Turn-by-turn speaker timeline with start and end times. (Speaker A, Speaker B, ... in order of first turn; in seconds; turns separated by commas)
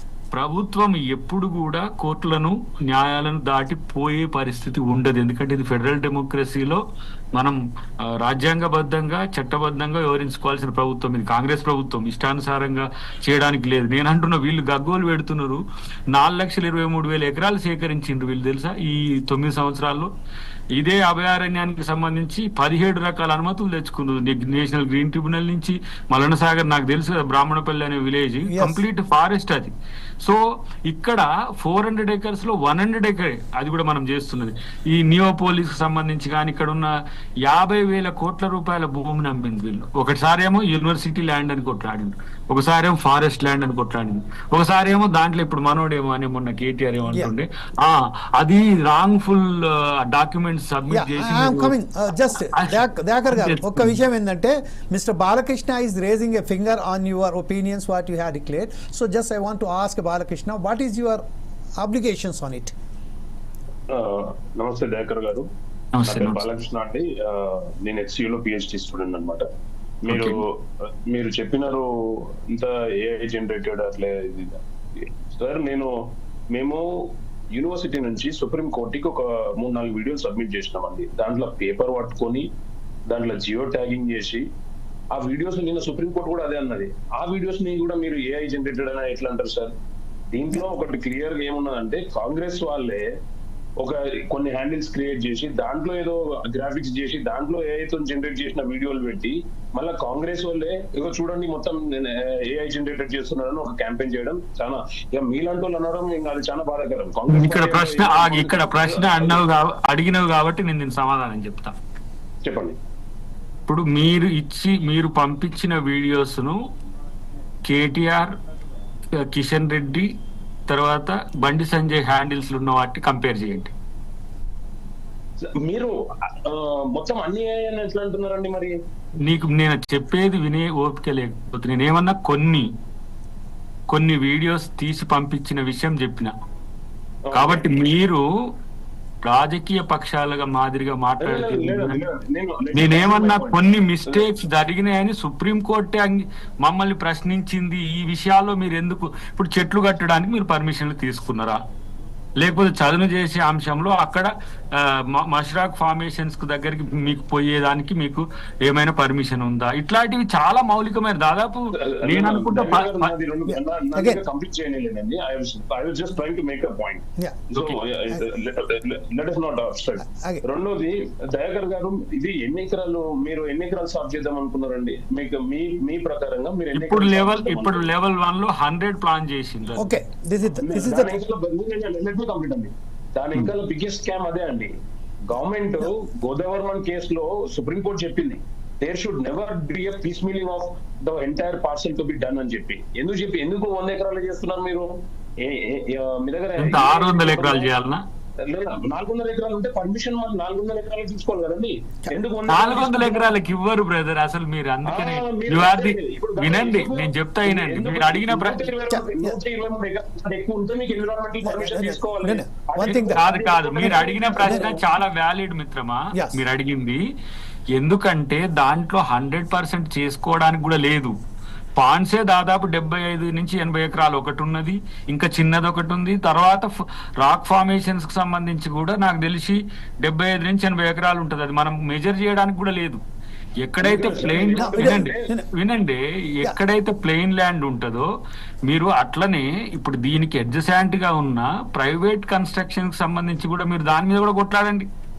Speaker A: 0.3-6.8, Speaker A: 8.2-15.6, Speaker A: 16.1-20.1, Speaker A: 20.8-29.7, Speaker B: 28.5-28.8, Speaker A: 30.2-36.9, Speaker A: 37.4-51.7, Speaker B: 50.9-61.2, Speaker A: 52.5-54.0, Speaker B: 61.8-62.7, Speaker C: 63.9-65.5, Speaker A: 65.9-66.4, Speaker C: 66.0-69.5, Speaker C: 70.0-70.5, Speaker A: 70.1-70.4, Speaker C: 71.1-71.9, Speaker C: 72.5-75.9, Speaker C: 76.5-76.8, Speaker C: 77.5-82.5, Speaker C: 83.1-84.4, Speaker C: 85.1-89.7, Speaker C: 90.3-93.0, Speaker C: 93.8-109.4, Speaker A: 107.3-111.8, Speaker C: 112.4-112.8, Speaker A: 113.7-116.6, Speaker A: 117.7-118.3, Speaker A: 119.2-120.1, Speaker A: 120.7-123.7, Speaker C: 125.6-128.8, Speaker A: 129.2-132.7, Speaker A: 133.9-136.3, Speaker C: 137.3-137.7, Speaker A: 137.3-138.2, Speaker A: 139.2-142.0, Speaker C: 141.2-144.2, Speaker A: 142.7-151.6, Speaker A: 152.4-163.1, Speaker C: 161.7-177.9, Speaker B: 163.5-164.2, Speaker A: 167.5-167.8, Speaker B: 170.1-170.4, Speaker A: 176.7-180.0, Speaker B: 179.8-181.2, Speaker C: 180.6-184.7, Speaker C: 185.3-194.9, Speaker C: 195.4-197.7, Speaker A: 196.6-198.0, Speaker C: 198.5-203.3, Speaker A: 202.5-208.7, Speaker C: 204.9-214.8, Speaker B: 208.9-209.4, Speaker B: 211.4-213.2, Speaker A: 213.1-217.0, Speaker B: 214.4-214.7, Speaker B: 216.1-216.4, Speaker A: 217.7-221.1, Speaker A: 221.8-233.0, Speaker A: 233.6-238.1, Speaker C: 233.8-235.3, Speaker B: 234.5-235.5, Speaker A: 238.7-244.9